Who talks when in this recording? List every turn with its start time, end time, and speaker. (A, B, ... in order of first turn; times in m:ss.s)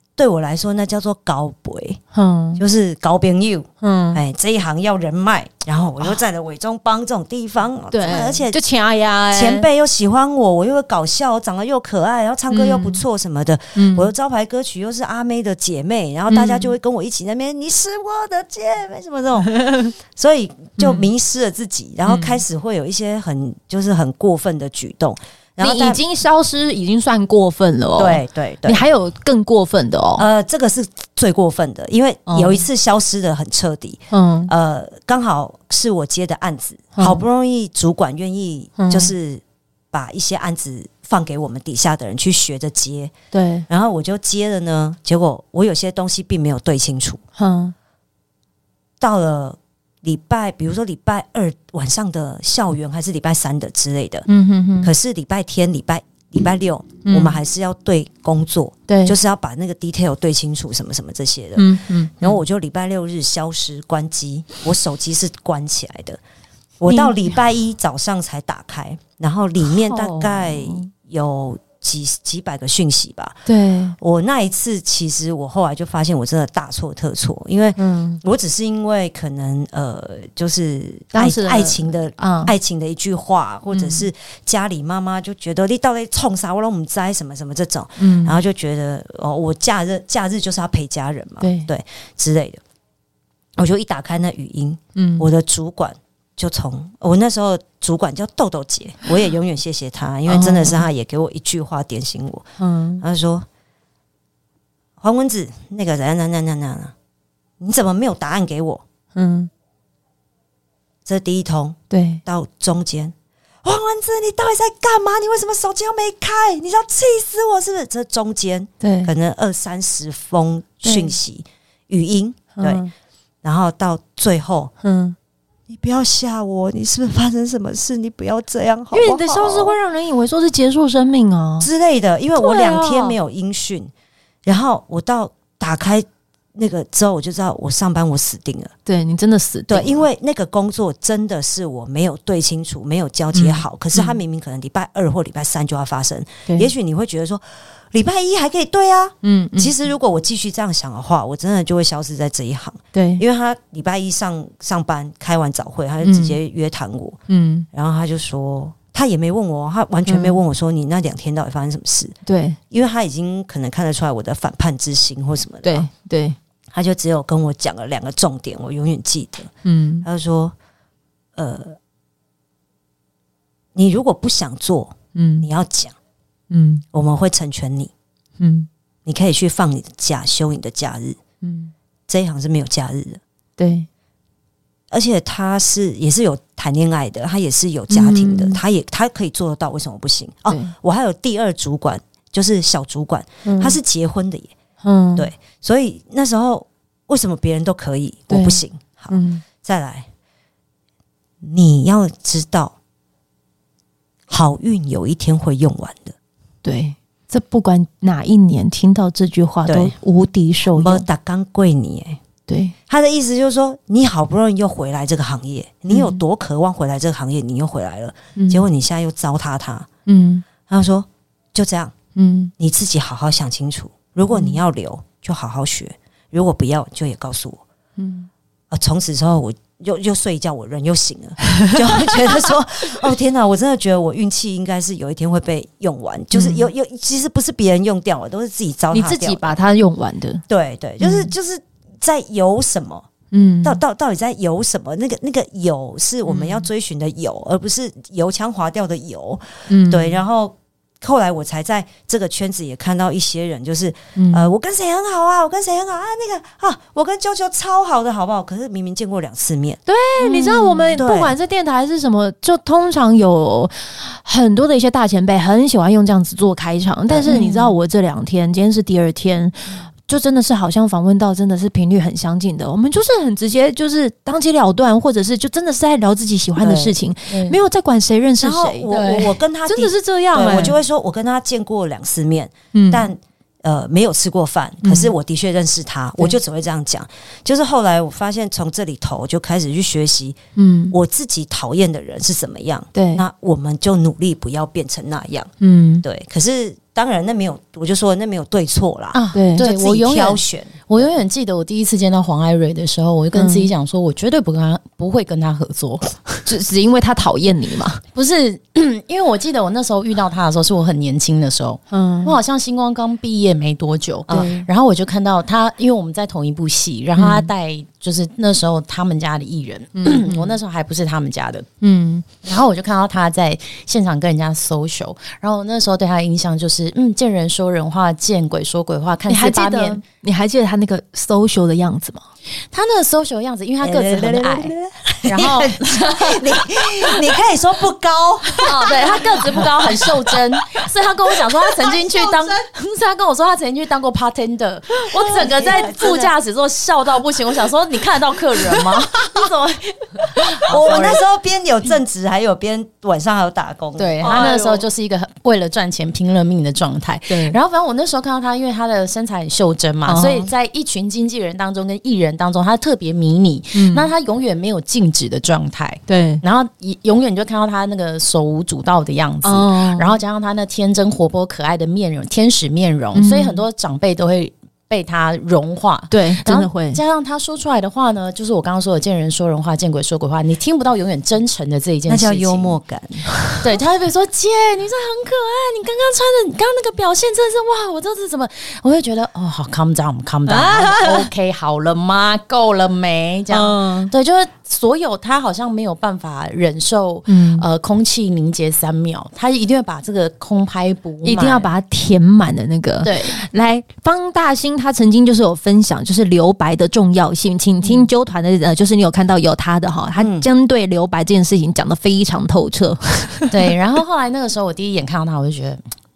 0:00.2-0:02.0 A
0:02.1-0:02.6 B
0:02.6-0:08.6 A
0:03.8-0:04.2 B
0:07.9-0:09.7 B
0:09.3-0:26.0 A
0:12.5-0:13.0 B
0:13.7-0:14.1 B
0:16.3-0:16.7 B
0:20.8-0:21.1 B
0:22.0-0:22.4 B
0:25.6-0:30.2 B
0:28.0-0:28.8 A
0:30.2-0:43.1 A
0:32.3-0:32.7 B
0:34.1-0:34.5 B
0:37.0-0:37.2 B
0:38.8-0:39.1 B
0:43.3-0:43.6 B
0:43.7-0:47.2 A
0:47.4-0:47.7 B
0:49.0-0:54.3 A
0:54.3-0:54.9 B
0:54.8-1:06.2 A
0:57.0-0:57.4 B
0:58.9-0:59.2 B
1:01.6-1:02.4 B
1:06.8-1:13.4 A
1:06.9-1:07.3 B
1:09.7-1:10.9 B
1:13.4-1:14.0 B
1:14.0-1:32.6 A
1:17.8-1:18.2 B
1:21.1-1:22.5 B
1:23.7-1:24.1 B
1:28.0-1:28.4 B
1:31.4-1:31.7 B
1:33.6-1:42.4 A
1:34.9-1:35.2 B
1:40.3-1:40.8 B
1:42.6-1:43.0 B
1:43.0-1:43.4 A
1:45.0-1:46.9 A
1:47.6-1:48.8 A
1:49.1-1:49.5 B
1:51.0-2:02.9 A
1:51.9-1:52.2 B
1:58.8-1:59.1 B
2:00.8-2:01.1 B
2:02.6-2:02.9 B
2:03.4-2:04.7 A
2:04.8-2:05.2 B
2:05.7-2:09.7 A
2:08.9-2:11.7 B
2:11.6-2:13.9 A
2:12.4-2:13.2 B
2:14.4-2:18.7 A
2:18.8-2:20.0 B
2:19.7-2:37.2 A
2:23.3-2:24.2 B
2:29.2-2:29.7 B
2:32.9-2:33.2 B
2:36.0-2:36.4 B
2:37.3-2:37.7 B
2:37.7-2:42.2 A
2:40.0-2:40.4 B
2:42.2-2:42.6 B
2:42.7-2:45.9 A
2:45.6-2:46.4 B
2:46.7-2:49.5 A
2:49.6-2:50.0 B
2:50.0-2:50.5 A
2:51.4-2:51.8 A
2:53.7-2:55.9 A
2:55.1-2:55.5 B
2:56.5-2:56.8 B
2:56.9-2:57.9 A
2:58.4-2:58.7 B
2:59.0-3:01.2 A
3:01.4-3:01.7 B
3:02.1-3:03.2 A
3:03.6-3:03.9 B
3:04.9-3:14.5 A
3:07.9-3:08.6 B
3:10.5-3:10.7 B
3:13.4-3:13.8 B
3:14.8-3:15.3 B
3:15.2-3:20.1 A
3:18.3-3:19.4 B
3:21.4-3:22.7 A
3:24.3-3:26.2 A
3:26.6-3:31.0 B
3:29.7-3:29.9 A
3:30.7-3:32.2 A
3:32.5-3:32.7 B
3:32.9-3:39.9 A
3:35.9-3:36.2 B
3:38.4-3:38.6 B
3:40.0-3:40.4 B
3:40.7-3:41.9 A
3:42.1-3:42.5 B
3:42.6-3:47.6 A
3:44.3-3:44.6 B
3:48.0-3:48.3 B
3:48.7-3:59.4 A
3:51.5-3:52.5 B
3:56.3-3:56.7 B
3:58.9-4:00.4 B
4:00.5-4:03.1 A
4:01.0-4:01.3 B
4:03.3-4:03.8 B
4:03.6-4:19.8 A
4:06.2-4:06.7 B
4:09.7-4:10.2 B
4:14.2-4:14.5 B
4:19.9-4:38.9 B
4:20.4-4:20.8 C
4:20.9-4:21.3 A
4:27.1-4:27.3 A
4:27.2-4:27.8 C
4:36.6-4:37.0 A
4:37.3-4:37.6 C
4:38.4-4:50.4 A
4:38.9-4:39.3 C
4:39.7-4:40.8 B
4:42.7-4:43.0 B
4:44.8-4:45.1 B
4:50.6-4:50.9 B
4:50.9-4:55.5 A
4:52.9-4:53.2 B
4:55.6-4:56.0 B
4:56.0-5:01.1 A
4:59.1-5:06.4 C
4:59.3-4:59.6 B
5:03.3-5:03.7 B
5:06.4-5:08.0 B
5:08.1-5:21.7 C
5:11.9-5:12.4 B
5:17.2-5:17.5 B
5:20.0-5:20.6 B
5:21.8-5:22.3 B
5:22.4-5:30.0 C
5:29.3-5:32.2 B
5:32.7-5:34.7 C
5:33.8-5:40.8 A
5:35.2-5:36.6 C
5:38.6-5:51.2 C
5:41.6-5:42.5 A
5:45.2-5:46.3 A
5:50.5-5:54.8 A
5:54.0-6:22.8 C
5:54.2-5:54.7 B
5:57.3-5:57.6 B
6:00.0-6:00.5 B
6:03.7-6:04.1 B
6:06.1-6:06.4 B
6:09.4-6:10.2 B
6:13.1-6:13.6 B
6:16.1-6:17.0 B
6:22.1-6:23.3 A
6:23.6-6:41.7 C
6:30.4-6:31.3 B
6:33.5-6:34.1 B
6:37.3-6:37.6 B
6:41.2-6:53.7 B
6:43.0-6:43.3 C
6:50.2-6:50.5 A
6:53.5-6:55.8 C